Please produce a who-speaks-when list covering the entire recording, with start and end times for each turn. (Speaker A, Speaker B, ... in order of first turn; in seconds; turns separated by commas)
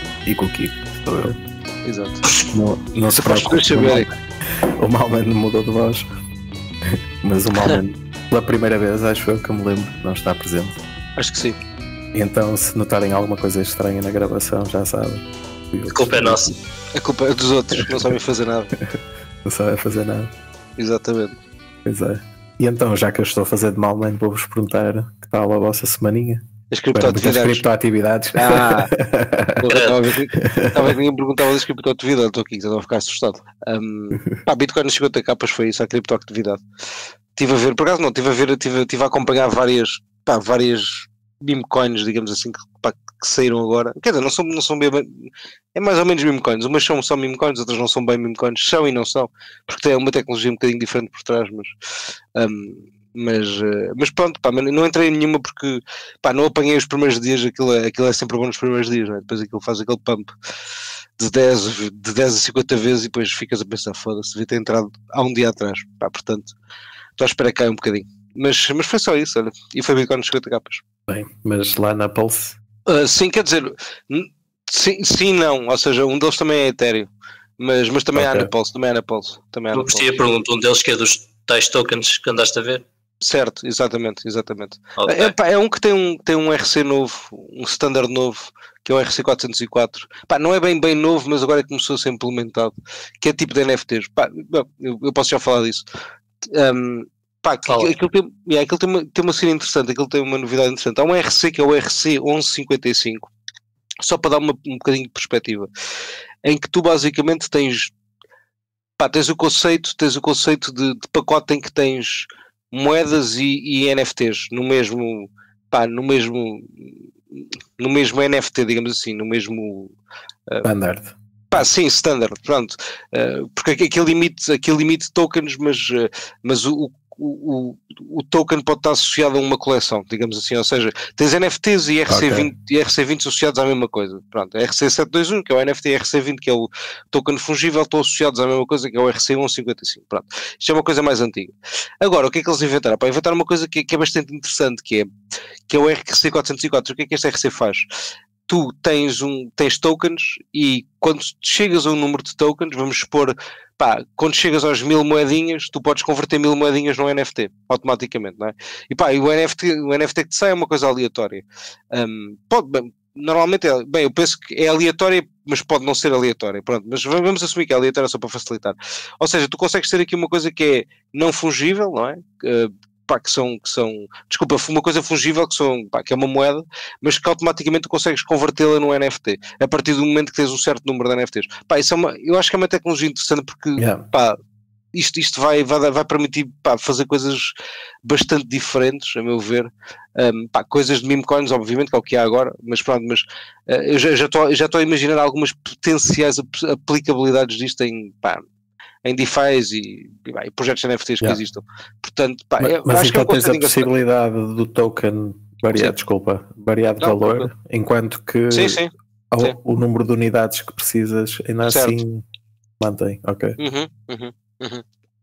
Speaker A: 0.2-1.4, Speaker B: 1.9-2.2, Speaker A: 2.5-6.1, Speaker B: 3.1-4.1, Speaker A: 6.8-10.8, Speaker B: 11.2-11.6, Speaker A: 12.1-16.6, Speaker C: 15.9-16.6, Speaker B: 16.9-18.7, Speaker A: 18.8-20.3, Speaker B: 20.8-21.4, Speaker A: 21.9-26.4, Speaker B: 26.7-27.6, Speaker A: 26.9-29.6, Speaker B: 28.3-28.9, Speaker B: 29.6-36.6, Speaker A: 30.4-30.9, Speaker B: 37.4-51.7, Speaker B: 52.4-60.3, Speaker B: 61.2-66.5, Speaker B: 67.2-70.8, Speaker A: 71.1-72.6, Speaker B: 72.9-80.2, Speaker A: 78.2-78.5, Speaker C: 79.7-82.8, Speaker B: 83.2-95.8, Speaker C: 85.0-85.3, Speaker B: 96.5-103.3, Speaker C: 97.7-97.9, Speaker B: 104.0-105.7, Speaker B: 106.4-107.9, Speaker B: 109.0-119.9, Speaker A: 120.6-121.7, Speaker B: 121.5-145.1, Speaker A: 132.1-132.5, Speaker B: 145.7-147.9, Speaker B: 148.5-184.4, Speaker A: 183.8-184.0, Speaker B: 184.9-187.5, Speaker B: 188.0-198.4, Speaker B: 199.0-204.0, Speaker A: 202.6-212.2, Speaker B: 207.0-207.5, Speaker B: 208.5-209.6, Speaker B: 211.7-212.0, Speaker A: 212.8-213.6, Speaker B: 213.6-214.8